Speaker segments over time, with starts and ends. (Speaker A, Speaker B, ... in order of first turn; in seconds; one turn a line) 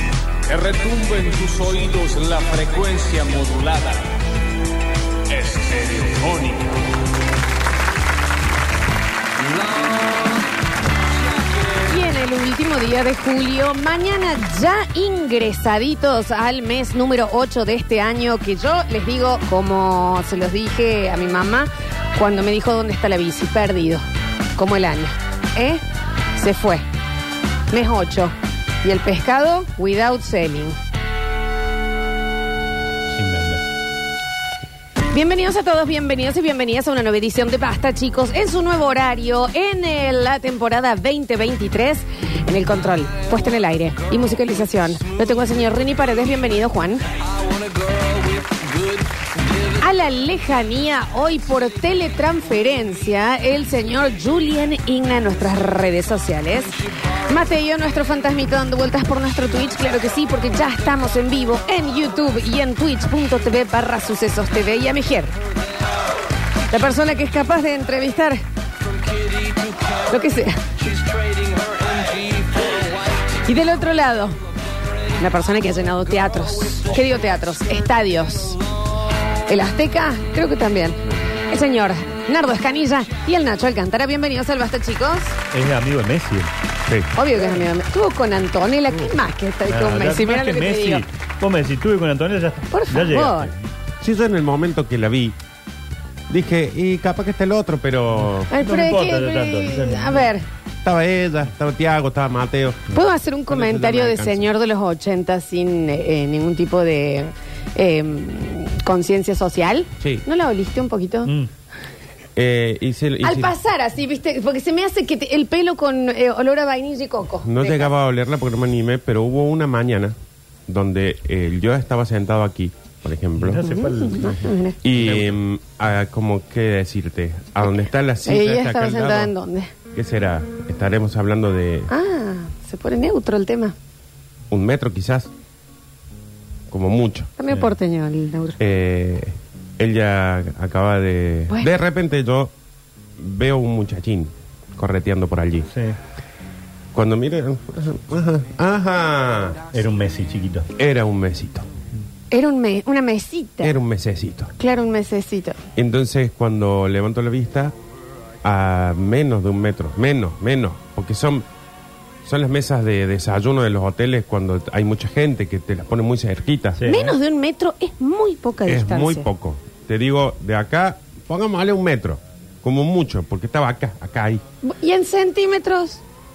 Speaker A: 0.5-4.2
Speaker A: 5.3-6.8
Speaker A: 9.4-10.5
Speaker A: 11.1-12.0
Speaker B: 11.8-24.0
Speaker B: 24.6-25.8
Speaker B: 26.4-26.8
Speaker B: 27.7-30.8
Speaker C: 33.1-33.6
Speaker B: 35.1-47.0
Speaker A: 47.4-49.0
Speaker B: 49.6-65.3
Speaker B: 66.7-68.4
Speaker A: 69.0-70.0
Speaker B: 69.9-70.7
Speaker A: 70.8-73.0
Speaker B: 73.2-74.4
Speaker B: 75.2-78.6
Speaker B: 79.5-85.4
Speaker C: 85.5-86.5
Speaker B: 87.2-91.0
Speaker C: 88.9-89.2
Speaker C: 89.7-93.7
Speaker B: 92.7-93.5
Speaker D: 94.0-95.4
Speaker D: 96.3-98.5
Speaker C: 98.3-100.3
Speaker B: 98.5-100.4
Speaker D: 100.8-104.5
Speaker B: 102.9-111.3
Speaker D: 112.4-113.5
Speaker B: 113.2-117.9
Speaker D: 117.4-120.2
Speaker D: 120.7-123.8
Speaker C: 123.4-125.4
Speaker B: 123.6-124.8
Speaker D: 124.8-129.3
Speaker B: 128.2-129.7
Speaker D: 129.9-131.9
Speaker B: 131.9-133.8
Speaker D: 134.5-135.3
Speaker D: 136.7-137.3
Speaker B: 137.4-138.6
Speaker D: 138.6-142.5
Speaker D: 143.2-145.7
Speaker C: 145.7-146.0
Speaker D: 146.9-149.6
Speaker C: 149.7-150.7
Speaker D: 150.8-151.7
Speaker B: 152.3-153.8
Speaker D: 153.6-154.5
Speaker B: 154.6-155.6
Speaker D: 155.8-157.7
Speaker D: 158.4-161.5
Speaker D: 162.2-166.8
Speaker C: 166.8-167.2
Speaker B: 166.9-169.3
Speaker D: 168.7-174.4
Speaker B: 174.6-176.0